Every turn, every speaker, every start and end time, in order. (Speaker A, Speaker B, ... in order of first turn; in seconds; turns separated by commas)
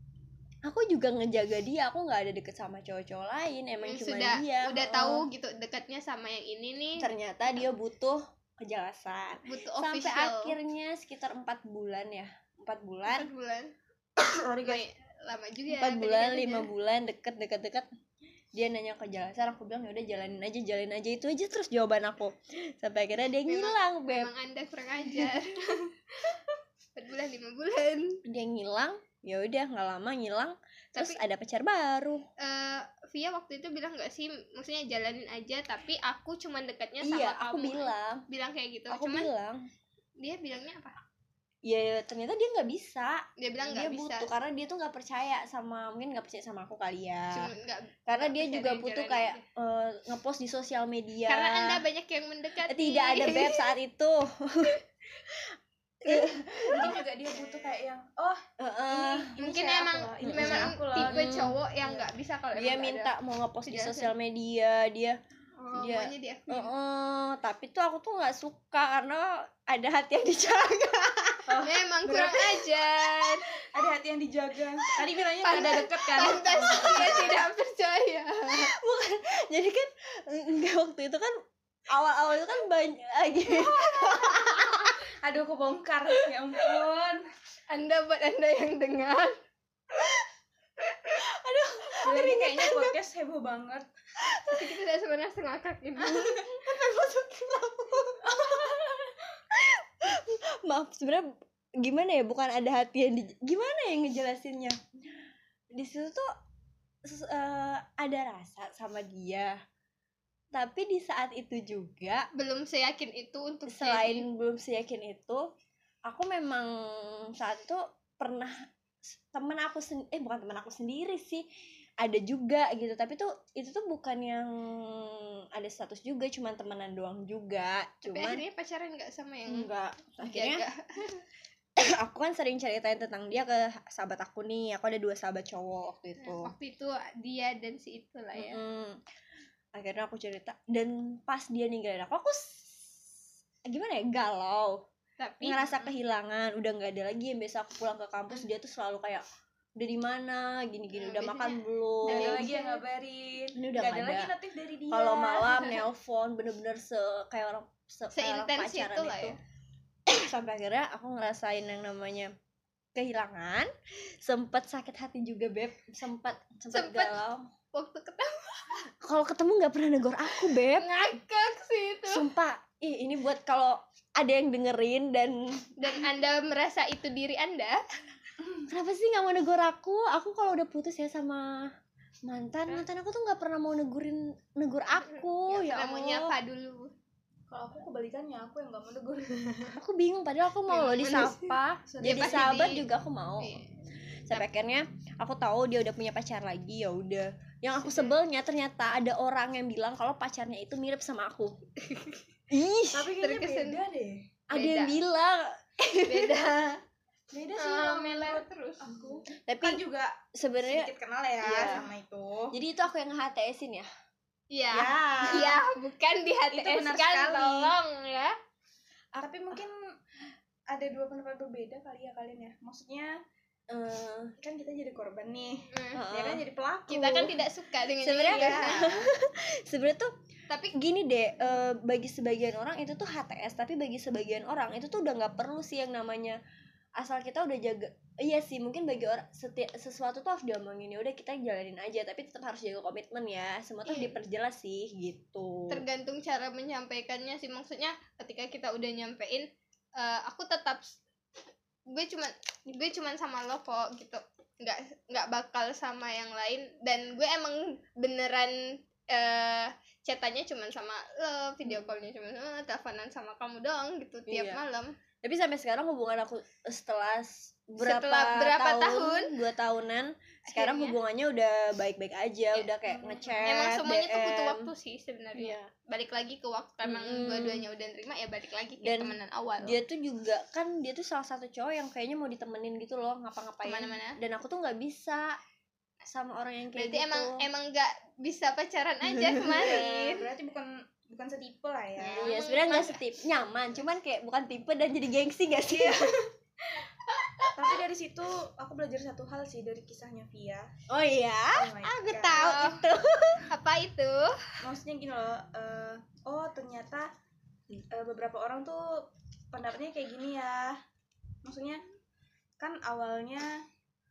Speaker A: 0.7-5.3, Speaker B: 3.8-7.1, Speaker A: 7.0-13.3, Speaker B: 9.4-10.6, Speaker B: 13.1-13.7, Speaker A: 14.2-14.8, Speaker B: 14.6-16.7, Speaker A: 15.7-17.9, Speaker A: 18.5-24.3, Speaker B: 23.5-26.4, Speaker B: 27.0-28.2, Speaker A: 28.2-32.2, Speaker B: 30.9-31.2, Speaker B: 32.4-39.3, Speaker A: 37.0-38.2, Speaker A: 38.9-39.6, Speaker B: 40.2-41.0, Speaker A: 41.6-47.5, Speaker B: 43.4-44.3, Speaker B: 47.3-49.5, Speaker A: 48.1-51.8, Speaker B: 51.3-53.7, Speaker A: 52.7-55.5, Speaker A: 56.0-57.0, Speaker C: 56.7-61.3, Speaker B: 56.9-57.4, Speaker A: 58.6-59.3, Speaker B: 59.4-63.1, Speaker A: 60.2-62.0, Speaker A: 62.5-65.2, Speaker B: 63.6-64.1, Speaker B: 65.6-66.7, Speaker A: 65.7-71.6, Speaker C: 71.5-72.4, Speaker B: 71.6-73.5, Speaker C: 73.6-77.4, Speaker B: 75.4-78.7, Speaker A: 76.7-77.3, Speaker A: 78.5-85.0, Speaker C: 85.2-87.2, Speaker B: 87.7-89.4, Speaker A: 91.4-93.0, Speaker C: 91.9-93.9, Speaker A: 94.3-94.7, Speaker B: 94.5-96.6, Speaker C: 96.1-98.9, Speaker A: 98.1-98.8, Speaker A: 99.5-104.8, Speaker A: 105.7-106.3, Speaker A: 107.0-109.6, Speaker A: 110.5-112.3, Speaker B: 112.3-114.2, Speaker A: 113.7-115.5, Speaker A: 116.1-121.4, Speaker A: 122.0-128.4, Speaker B: 128.1-129.7, Speaker A: 129.5-130.7, Speaker B: 130.2-131.2, Speaker A: 131.8-136.5, Speaker B: 136.2-138.6, Speaker A: 138.3-139.0, Speaker A: 139.8-143.1, Speaker A: 143.7-144.8, Speaker B: 145.2-145.9, Speaker A: 145.4-149.2, Speaker A: 149.8-152.5, Speaker B: 150.9-152.8, Speaker C: 152.1-155.8, Speaker A: 153.6-154.3, Speaker A: 154.9-159.4, Speaker B: 158.1-159.4, Speaker A: 160.1-162.3, Speaker A: 162.9-167.5, Speaker B: 166.7-167.2, Speaker B: 167.7-168.8, Speaker A: 169.0-170.9, Speaker B: 170.6-172.3, Speaker A: 172.1-175.9, Speaker B: 175.8-177.8, Speaker A: 178.7-181.7, Speaker A: 182.2-186.3, Speaker B: 185.0-186.9, Speaker C: 187.5-189.8, Speaker A: 189.7-193.6, Speaker B: 190.7-192.8, Speaker C: 191.9-192.7, Speaker B: 193.4-193.7, Speaker A: 194.3-201.6, Speaker B: 197.8-198.1, Speaker B: 201.8-202.2, Speaker A: 202.5-203.2, Speaker C: 202.9-204.2, Speaker B: 203.2-203.8, Speaker A: 204.5-206.8, Speaker B: 204.5-205.0, Speaker B: 206.1-206.6, Speaker C: 207.3-212.6, Speaker B: 207.6-208.9, Speaker A: 209.5-209.8, Speaker A: 210.3-210.9, Speaker A: 211.4-211.9, Speaker A: 212.5-213.9, Speaker B: 214.5-218.3, Speaker A: 214.7-215.6, Speaker C: 214.8-215.5, Speaker C: 216.5-217.7, Speaker C: 219.2-219.8, Speaker C: 220.7-223.2, Speaker A: 223.7-224.3, Speaker C: 224.4-227.3, Speaker B: 225.7-226.0, Speaker A: 225.9-226.4, Speaker B: 226.9-228.9, Speaker A: 226.9-227.4, Speaker A: 228.0-230.1, Speaker C: 228.3-229.1, Speaker B: 230.5-230.8, Speaker A: 230.7-236.4, Speaker A: 237.0-245.8, Speaker B: 243.8-244.2, Speaker B: 245.7-251.0, Speaker B: 251.9-264.9, Speaker A: 264.3-264.6, Speaker A: 265.2-274.7, Speaker B: 267.8-269.3, Speaker B: 270.5-271.0, Speaker C: 272.9-273.6, Speaker B: 273.5-279.8, Speaker A: 275.4-275.7, Speaker A: 276.8-277.7, Speaker A: 278.8-285.4, Speaker B: 283.6-284.2, Speaker A: 286.1-287.4, Speaker B: 286.8-290.2, Speaker A: 289.1-290.0, Speaker C: 289.5-292.3, Speaker A: 292.0-296.2, Speaker B: 292.1-293.0, Speaker C: 295.7-296.3, Speaker C: 297.5-300.7, Speaker A: 300.9-303.5, Speaker C: 301.5-302.6, Speaker B: 302.3-302.8, Speaker B: 303.5-304.5, Speaker C: 304.6-307.1, Speaker C: 307.9-310.8, Speaker C: 311.4-311.8, Speaker C: 312.6-313.6